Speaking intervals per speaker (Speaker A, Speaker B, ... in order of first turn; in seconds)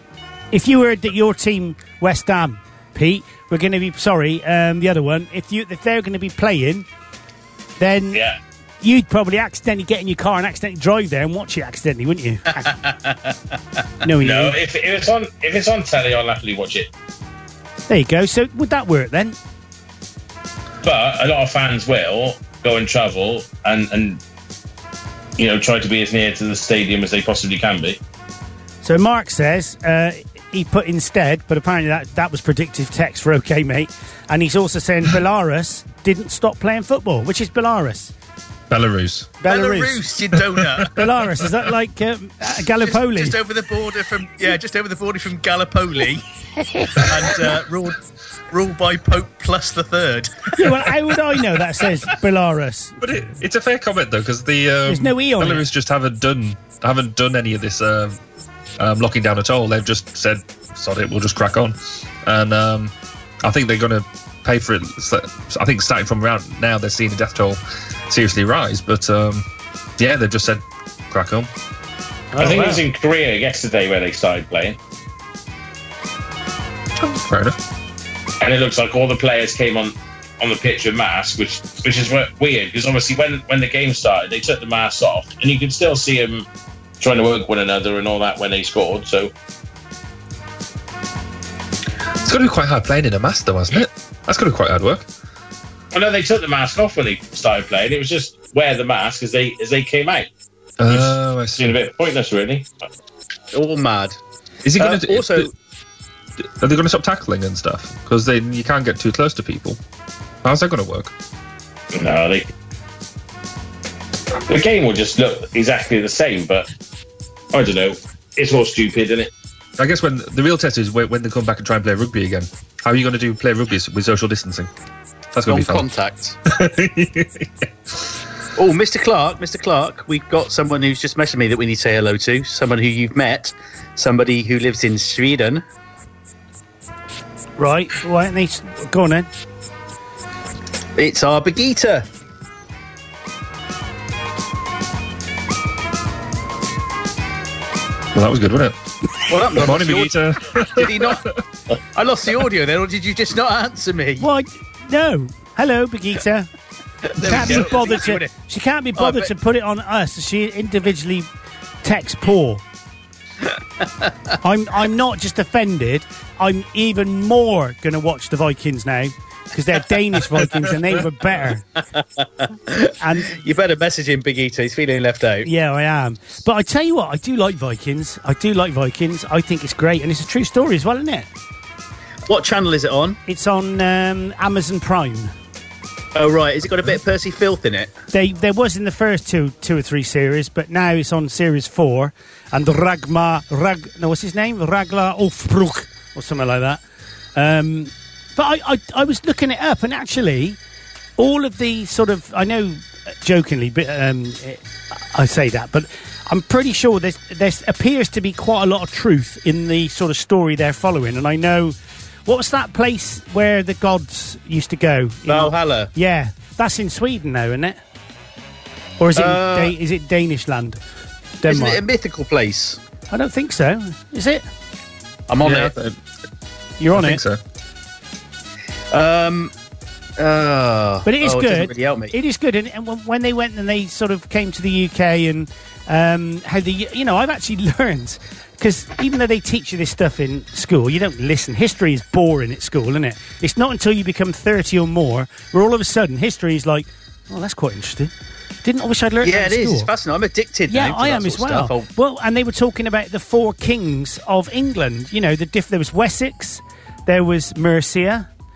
Speaker A: 0.5-6.8, 7.8-8.2, 8.8-12.7, 14.0-14.6, 17.9-19.4, 28.8-38.1, 39.4-40.0, 40.8-43.4, 46.6-47.1, 50.5-53.2, 54.9-55.6, 72.3-72.8, 137.6-139.3, 154.2-156.5, 157.2-161.3, 161.8-162.6, 164.4-171.6, 173.0-173.3, 175.4-181.3, 183.2-185.3, 188.1-196.8, 197.3-200.6, 201.2-211.7, 212.2-217.8, 219.0-220.8, 221.4-221.8, 223.1-224.4, 226.8-227.2, 231.1-248.1, 248.6-249.9, 250.7-258.3
Speaker B: 8.1-8.4, 14.2-16.9, 20.8-24.2, 25.4-28.0, 72.4-74.8, 78.4-86.5, 87.0-89.3, 95.9-100.3, 100.9-102.7, 111.9-112.5, 114.5-116.7, 117.5-119.3
Speaker C: 12.6-13.3, 39.5-41.0, 42.8-46.2, 46.9-48.0, 48.5-50.7, 103.5-104.2, 104.8-105.5, 125.5-126.4, 128.6-135.6, 140.9-142.1, 149.3-151.4, 151.9-154.3, 157.1-158.3, 158.9-159.3, 163.8-164.1, 171.9-175.5, 182.3-183.2, 186.1-187.9, 215.3-215.9, 219.1-219.7, 221.5-222.8, 225.3-225.7, 228.9-229.5, 230.2-232.1, 249.2-251.9
Speaker D: 38.7-39.4, 40.3-40.8, 53.0-58.2, 58.8-69.5, 70.0-71.5, 77.0-77.6, 92.2-95.1, 100.8-101.7, 104.6-105.5, 106.4-109.8, 110.4-111.1, 119.8-124.7, 125.3-125.9, 126.5-128.1, 148.1-148.8, 149.4-151.2, 225.4-226.0, 226.9-227.4